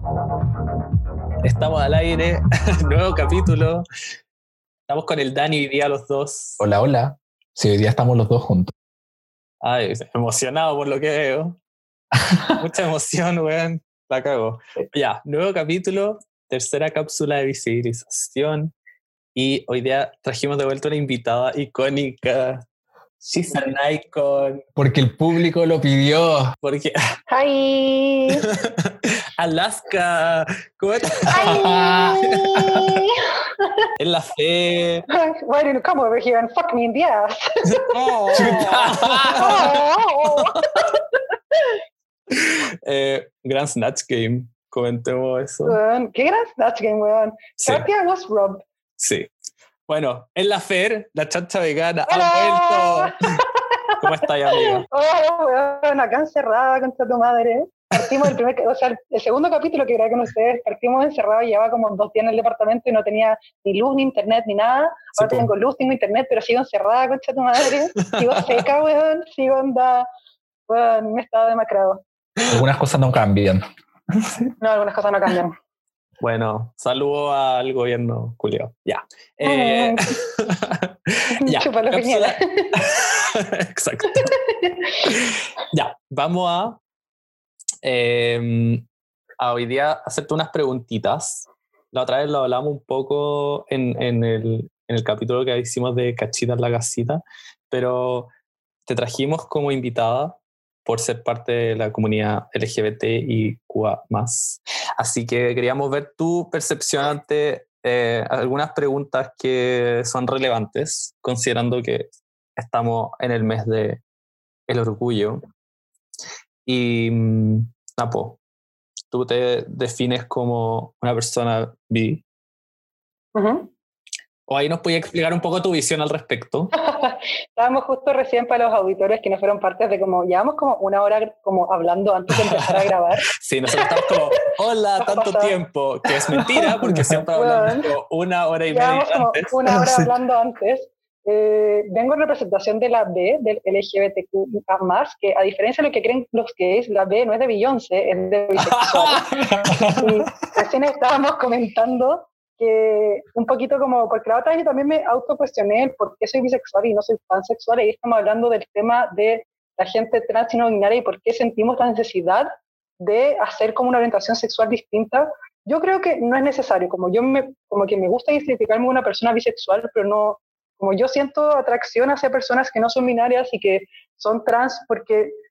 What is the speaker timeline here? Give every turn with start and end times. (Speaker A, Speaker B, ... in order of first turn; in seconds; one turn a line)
Speaker A: 1.4-3.9
Speaker A: 4.9-6.6
Speaker B: 6.6-8.7
Speaker A: 9.6-11.6
Speaker B: 12.1-12.6
Speaker A: 12.6-18.7
Speaker A: 19.4-22.6
Speaker A: 23.2-24.6
Speaker B: 24.8-26.5
Speaker A: 26.6-27.0
Speaker C: 27.3-28.5
Speaker A: 28.4-31.4
Speaker C: 31.3-33.7
Speaker B: 31.3-32.3
Speaker A: 34.0-35.1
Speaker C: 35.1-40.9
Speaker B: 38.0-39.6
Speaker A: 38.3-40.9
Speaker A: 42.3-45.8
Speaker C: 45.6-48.6
Speaker A: 47.6-47.9
Speaker A: 49.0-49.3
Speaker A: 49.9-53.3
Speaker C: 52.1-70.1
Speaker A: 54.0-54.9
Speaker A: 57.9-58.3
Speaker A: 65.2-65.5
Speaker C: 70.7-72.0
Speaker B: 72.5-74.4
Speaker C: 74.6-75.5
Speaker A: 76.2-84.3
Speaker C: 79.4-80.2
Speaker C: 81.4-82.8
Speaker C: 84.1-85.0
Speaker A: 85.0-86.8
Speaker A: 87.8-88.8
Speaker A: 89.4-98.3
Speaker A: 98.9-114.0
Speaker A: 114.7-115.5
Speaker A: 116.7-118.4
Speaker A: 119.1-122.2
Speaker C: 123.3-123.7
Speaker A: 124.5-126.7
Speaker C: 126.8-134.2
Speaker A: 132.3-132.8
Speaker A: 133.4-140.1
Speaker C: 135.0-135.6
Speaker B: 136.8-137.2
Speaker C: 137.3-137.9
Speaker C: 138.7-149.3
Speaker B: 149.6-149.9
Speaker C: 150.0-175.3